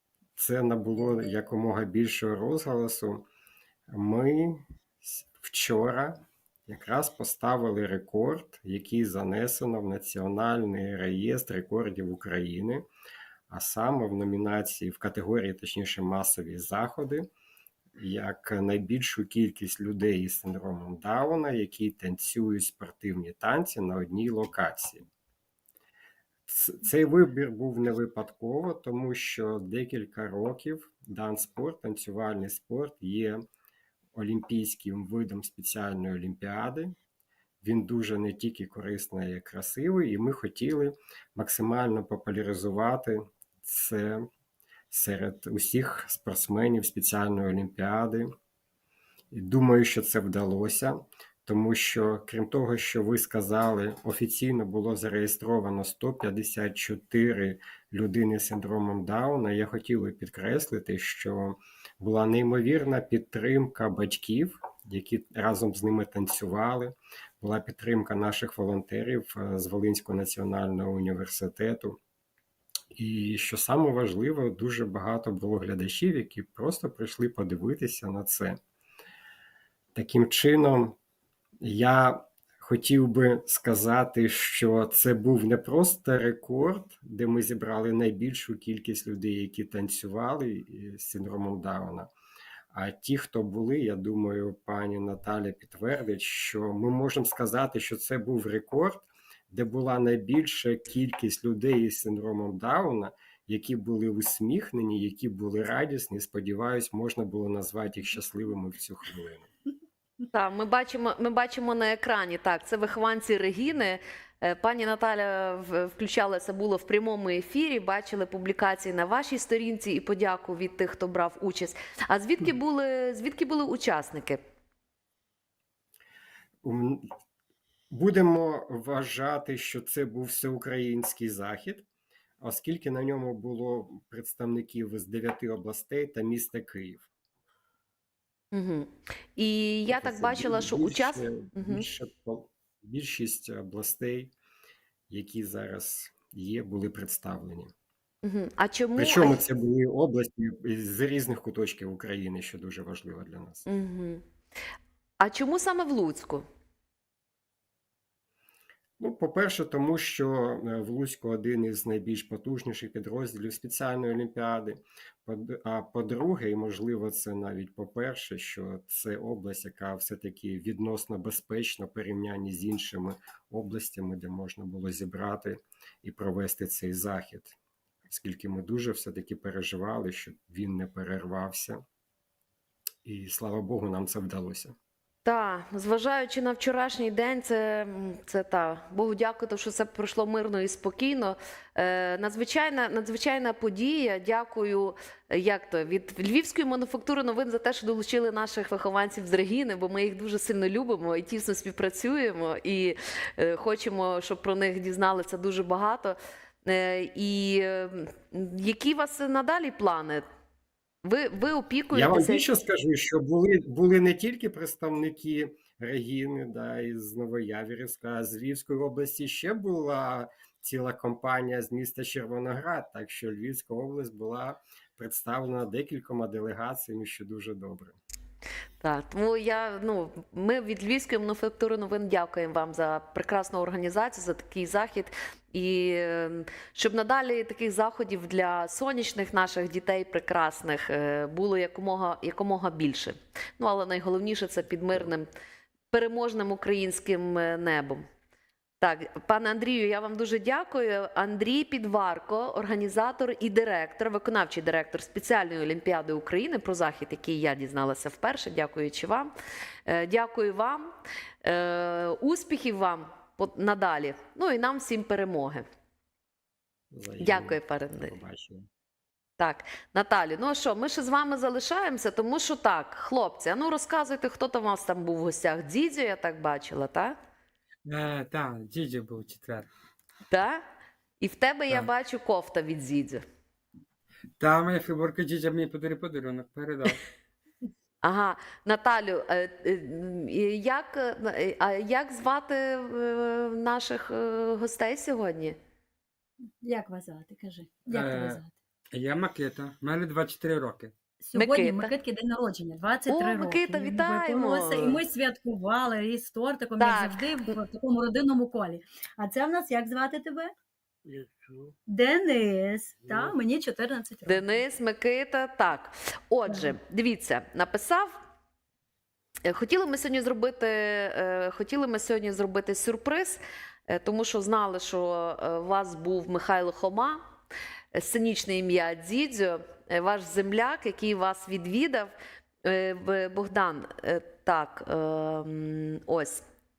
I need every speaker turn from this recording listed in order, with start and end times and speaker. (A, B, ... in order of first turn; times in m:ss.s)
0:00.4-0:03.3 A
0:03.9-0:12.9 A
0:13.5-0:17.3 A
0:18.0-0:25.1 A
0:26.5-0:33.4 A
0:34.1-0:37.0 A
0:37.6-0:44.3 A
0:44.9-0:48.3 A
0:49.3-1:12.0 A
1:12.9-1:18.6 A
1:20.0-1:21.0 A
1:21.6-1:32.1 A
1:32.7-1:49.5 A
1:50.3-2:04.4 B
2:06.6-2:07.1 A
2:07.9-2:11.9 A
2:12.4-2:17.1 A
2:18.5-2:21.9 B
2:19.9-2:24.3 A
2:25.1-2:27.7 A
2:28.2-2:29.4 B
2:29.0-2:33.6 A
2:33.7-2:34.2 B
2:35.2-2:36.5 B
2:39.0-2:57.6 A
2:58.1-3:01.8 A
3:03.0-3:04.8 A
3:05.2-3:30.2 B
3:31.0-3:32.5 B
3:31.9-3:48.0 A
3:48.8-4:05.3 B
4:05.9-4:08.0 B
4:08.8-4:19.3 B
4:19.9-4:25.7 B
4:26.9-4:28.7 A
4:27.2-4:28.2 B
4:29.4-4:37.2 B
4:37.9-4:39.7 C
4:40.3-4:40.6 B
4:41.2-4:43.2 B
4:44.4-4:47.0 C
4:48.0-4:55.6 B
4:56.6-4:58.5 D
4:57.9-4:58.4 C
4:58.9-5:00.9 C
5:01.2-5:10.5 D
5:01.4-5:01.9 B
5:03.1-5:05.0 B
5:06.8-5:07.5 B
5:11.9-5:14.6 D
5:14.3-5:18.2 B
5:19.4-5:27.2 B
5:27.9-5:32.1 B
5:32.6-5:36.4 B